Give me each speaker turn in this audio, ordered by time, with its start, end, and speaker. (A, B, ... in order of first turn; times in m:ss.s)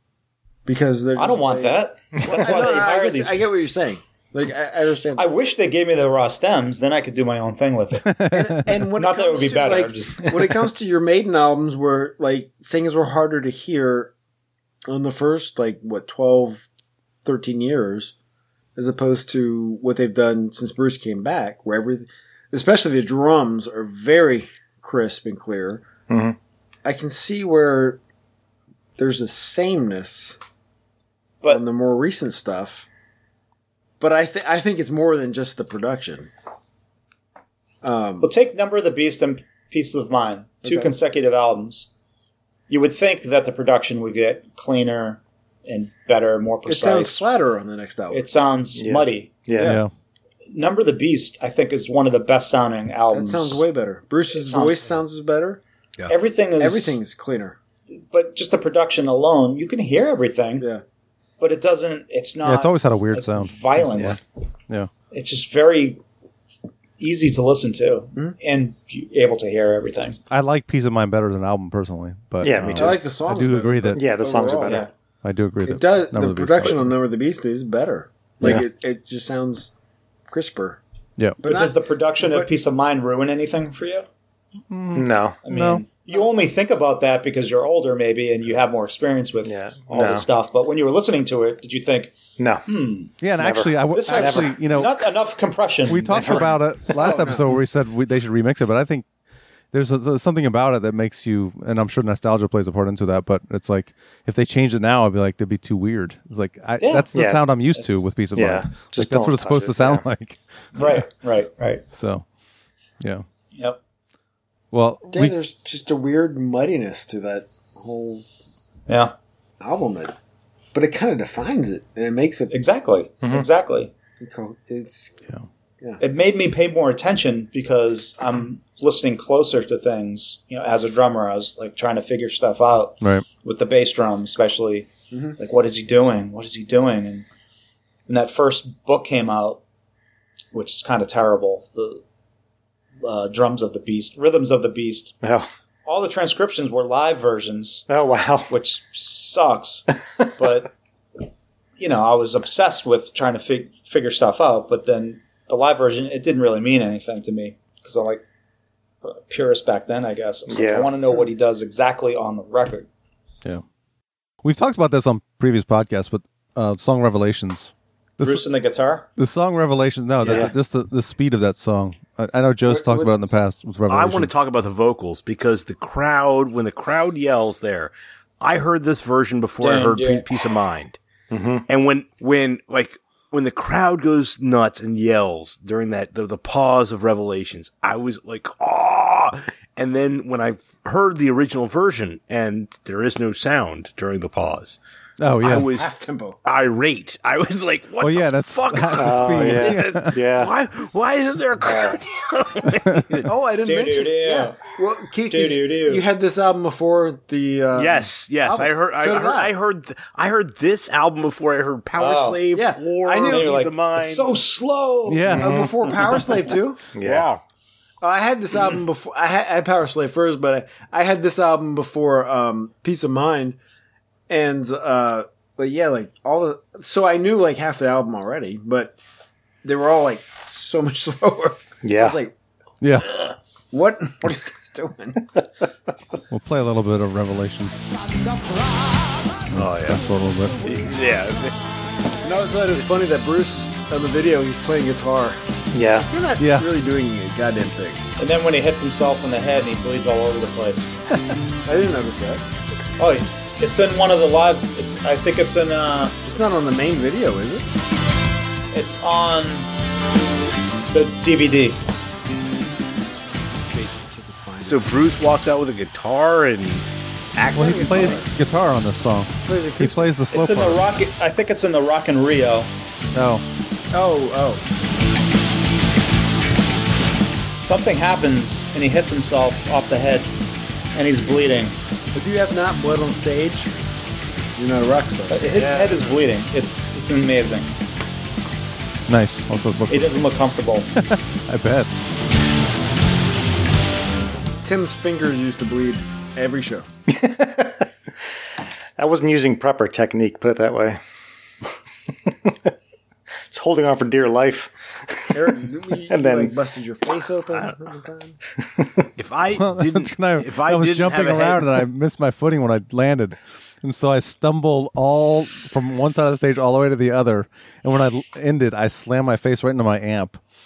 0:00.7-0:05.3 A
0:01.2-0:03.4 B
0:05.2-0:08.1 B
0:08.0-0:08.6 C
0:08.3-0:14.1 A
0:09.0-0:10.3 B
0:14.9-0:16.7 A
0:17.2-0:18.1 A
0:18.8-0:25.8 A
0:26.1-0:26.4 D
0:26.8-0:28.0 A
0:29.0-0:30.4 A
0:31.5-0:32.9 A
0:34.0-0:36.3 A
0:37.8-0:38.3 A
0:38.2-0:41.9 B
0:40.6-0:40.9 A
0:42.7-0:47.2 B
0:46.7-0:48.3 A
0:48.1-0:49.4 B
0:48.8-0:49.8 D
0:49.6-0:49.8 A
0:49.6-0:49.9 C
0:50.5-0:53.6 B
0:53.1-0:55.6 A
0:54.3-0:55.0 B
0:56.1-0:57.0 B
0:56.6-0:57.6 A
0:57.9-1:00.7 B
1:01.4-1:04.2 B
1:02.4-1:04.2 C
1:05.1-1:06.0 B
1:07.0-1:10.2 B
1:10.3-1:14.0 C
1:12.4-1:13.0 D
1:12.6-1:14.8 A
1:14.0-1:14.9 D
1:15.2-1:16.9 C
1:15.7-1:19.7 A
1:20.3-1:20.8 A
1:21.4-1:22.5 A
1:21.4-1:24.1 B
1:24.7-1:25.8 C
1:25.0-1:25.4 D
1:25.4-1:33.1 B
1:29.4-1:30.3 D
1:32.4-1:32.6 D
1:33.2-1:35.0 C
1:33.4-1:34.6 D
1:33.9-1:36.6 B
1:35.9-1:39.1 C
1:36.1-1:36.6 D
1:37.0-1:37.5 A
1:39.7-1:50.4 C
1:46.8-1:47.1 B
1:47.1-1:47.5 D
1:47.7-1:48.0 B
1:48.3-1:50.1 D
1:50.8-1:51.8 B
1:51.9-1:52.2 C
1:54.7-1:55.4 C
1:55.1-1:58.2 A
1:58.9-1:59.1 B
1:59.6-2:00.1 A
2:00.7-2:02.6 A
2:02.5-2:03.9 B
2:04.2-2:05.2 A
2:06.0-2:17.3 B
2:15.1-2:15.4 A
2:18.1-2:19.6 B
2:20.5-2:22.0 B
2:23.0-2:25.2 B
2:25.2-2:25.5 D
2:25.8-2:27.9 B
2:27.9-2:28.5 D
2:28.5-2:29.9 B
2:30.4-2:30.7 B
2:31.8-2:38.2 B
2:39.0-2:42.9 B
2:40.5-2:40.9 D
2:44.4-2:48.4 C
2:48.2-2:49.1 B
2:49.2-2:54.3 C
2:50.2-2:50.5 B
2:50.2-2:50.5 D
2:52.7-2:53.1 A
2:53.9-3:01.0 E
2:59.6-3:00.3 B
3:01.3-3:01.6 D
3:01.7-3:14.8 E
3:15.2-3:15.7 C
3:15.4-3:15.9 E
3:15.7-3:16.4 A
3:16.4-3:23.3 E
3:18.0-3:20.2 C
3:18.9-3:20.5 D
3:21.6-3:22.0 B
3:23.2-3:29.6 A
3:23.6-3:24.7 B
3:25.3-3:26.0 B
3:27.8-3:34.3 E
3:32.0-3:32.4 B
3:32.5-3:33.5 A
3:33.2-3:35.5 B
3:35.1-3:35.6 C
3:35.4-3:36.8 A
3:37.0-3:37.3 D
3:37.0-3:37.4 E
3:38.0-3:43.6 A
3:44.3-3:49.0 A
3:49.6-3:52.3 A
3:51.8-3:52.2 D
3:52.8-3:53.1 C
3:53.7-3:55.3 A
3:56.3-3:57.8 C
3:59.5-4:00.6 C
3:59.5-4:00.0 E
4:00.6-4:01.5 E
4:02.2-4:05.4 A
4:05.7-4:06.1 D
4:06.0-4:08.0 A
4:06.4-4:06.7 C
4:08.2-4:10.9 B
4:11.7-4:12.4 A
4:13.0-4:16.2 B
4:16.3-4:17.6 A
4:18.7-4:19.7 B
4:20.9-4:21.8 B
4:23.7-4:24.9 A
4:24.6-4:28.2 E
4:27.4-4:28.3 A
4:27.6-4:30.8 C
4:29.5-4:30.2 A
4:30.3-4:32.7 B
4:33.1-4:33.4 C
4:33.9-4:34.6 A
4:37.6-4:40.3 B
4:41.0-4:41.8 B
4:42.2-4:43.7 A
4:44.6-4:45.5 A
4:45.3-4:47.7 B
4:45.6-4:45.9 D
4:49.1-4:50.2 C
4:49.9-4:50.9 B
4:51.1-4:51.9 C
4:54.6-4:56.9 A
4:57.1-4:57.9 D
4:59.0-5:01.0 D
5:02.3-5:02.7 D
5:03.5-5:06.6 D
5:05.3-5:08.4 A
5:09.2-5:11.8 E
5:09.6-5:20.4 C